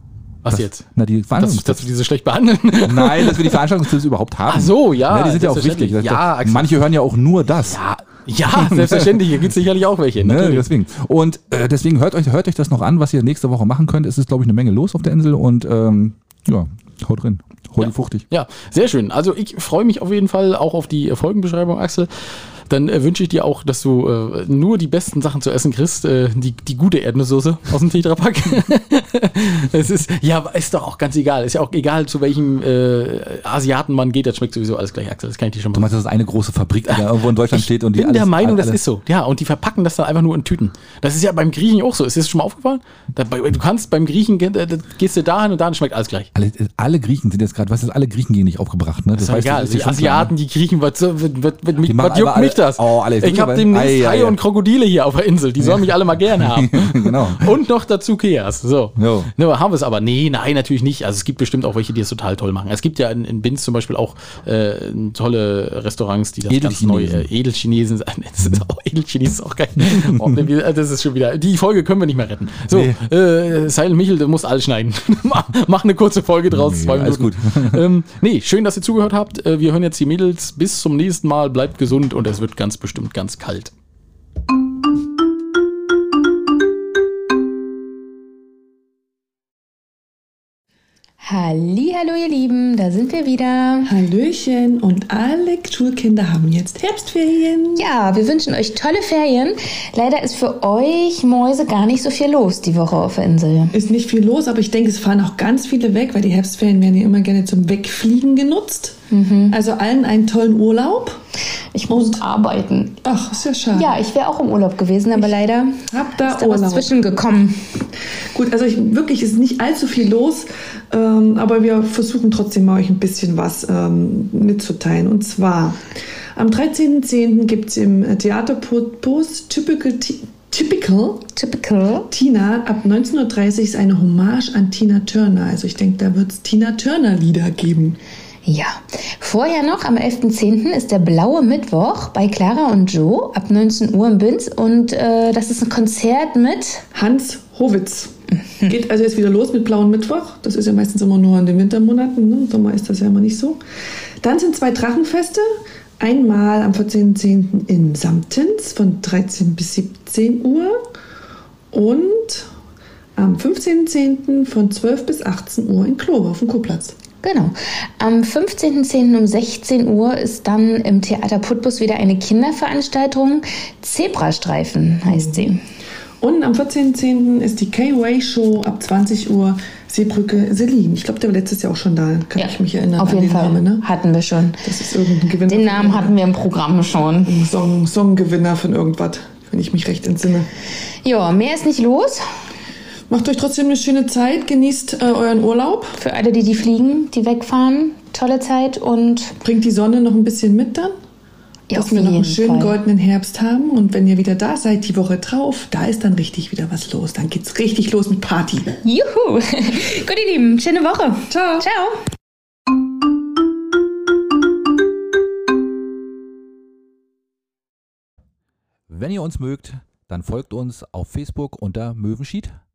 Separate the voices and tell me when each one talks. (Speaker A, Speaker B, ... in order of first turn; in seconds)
Speaker A: 0.4-0.8, 1.4-3.7, 4.5-6.9, 7.7-10.7, 17.8-35.9, 36.9-46.3, 49.2-83.7
Speaker B: 0.5-1.9, 2.8-7.8, 8.5-9.2, 10.2-18.2, 35.7-38.8, 46.3-50.3, 51.8-54.4, 55.6-57.5, 59.0-59.3, 66.5-67.3, 69.9-70.3, 72.7-73.0, 76.5-77.8, 218.9-222.6
Speaker C: 91.2-94.0, 97.8-103.8, 109.1-109.6, 111.7-113.0, 113.7-117.7, 131.4-132.1, 138.5-146.8, 167.2-175.6, 182.4-184.6, 185.5-187.4, 191.0-192.3, 196.0-199.4, 201.7-202.8, 208.8-212.0
Speaker D: 93.8-97.8, 103.7-109.0, 109.5-111.2, 111.9-112.2, 113.0-114.0, 115.9-116.9, 118.3-125.8, 126.4-131.3, 132.1-138.0, 146.9-148.1, 148.7-153.6, 154.2-160.8, 161.7-162.5, 163.2-166.9, 175.1-175.5, 176.2-183.9, 184.6-186.2, 187.3-190.5, 193.1-196.0, 199.4-200.9, 201.7-208.8, 211.3-211.7